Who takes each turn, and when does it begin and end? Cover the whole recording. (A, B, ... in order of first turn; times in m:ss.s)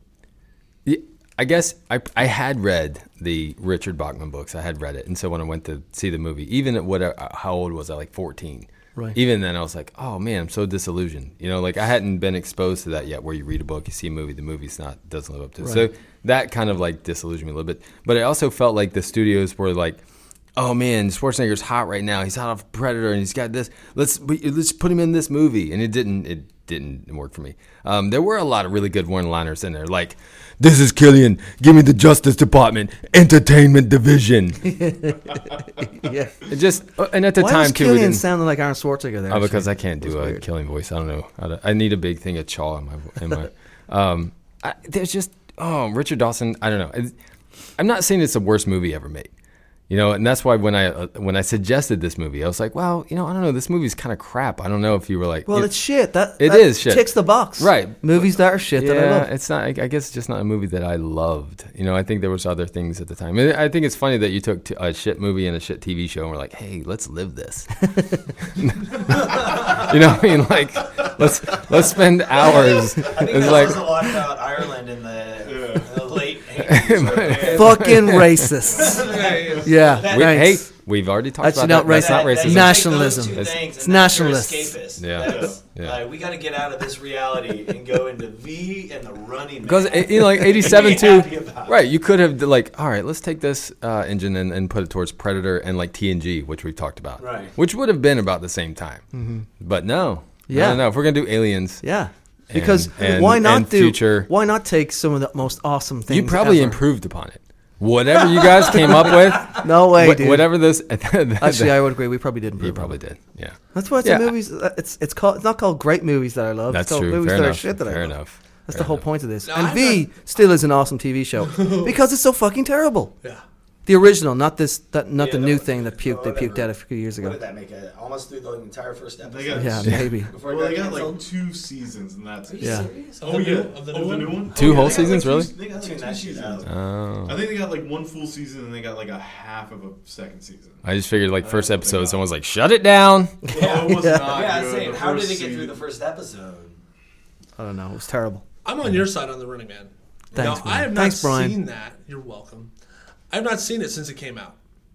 0:00.8-0:20.0 A
0:15.6-0:15.9 B
0:20.6-0:34.8 A
0:34.7-0:36.5 B
0:36.4-0:38.2 A
0:37.3-0:40.4 B
0:39.3-0:47.2 A
0:47.8-0:49.3 A
0:49.9-0:55.7 A
0:55.5-0:59.3 B
0:56.4-1:14.1 A
1:09.4-1:09.8 C
1:12.4-1:17.8 C
1:15.4-1:16.2 D
1:16.6-1:18.5 A
1:16.8-1:18.1 D
1:17.5-1:19.0 B
1:18.7-1:19.7 D
1:18.7-1:20.5 C
1:19.0-1:19.8 E
1:19.6-1:20.7 B
1:20.0-1:23.6 A
1:21.4-1:24.8 B
1:21.8-1:31.8 C
1:25.0-1:26.0 A
1:25.2-1:25.6 D
1:29.6-1:39.0 A
1:37.2-1:37.5 C
1:39.1-1:39.4 B
1:39.6-1:41.8 A
1:40.5-1:40.9 B
1:41.8-1:46.8 B
1:42.5-1:44.3 A
1:46.1-1:52.0 A
1:49.5-1:50.6 B
1:51.4-1:53.0 B
1:52.6-1:54.3 A
1:53.7-2:03.1 B
1:56.7-1:59.0 A
1:59.4-2:00.0 E
2:01.5-2:01.9 E
2:03.8-2:07.4 B
2:05.2-2:11.3 C
2:09.2-2:16.7 D
2:09.5-2:10.3 B
2:12.4-2:13.5 C
2:12.6-2:12.9 B
2:13.2-2:14.8 E
2:14.5-2:15.5 A
2:14.6-2:16.7 C
2:16.7-2:17.4 A
2:17.2-2:20.8 D
2:20.8-2:23.4 A
2:21.4-2:22.2 D
2:23.5-2:24.3 B
2:23.5-2:25.8 D
2:23.5-2:26.8 C
2:27.6-2:28.4 B
2:28.6-2:32.7 E
2:30.3-2:31.6 B
2:33.3-2:34.5 E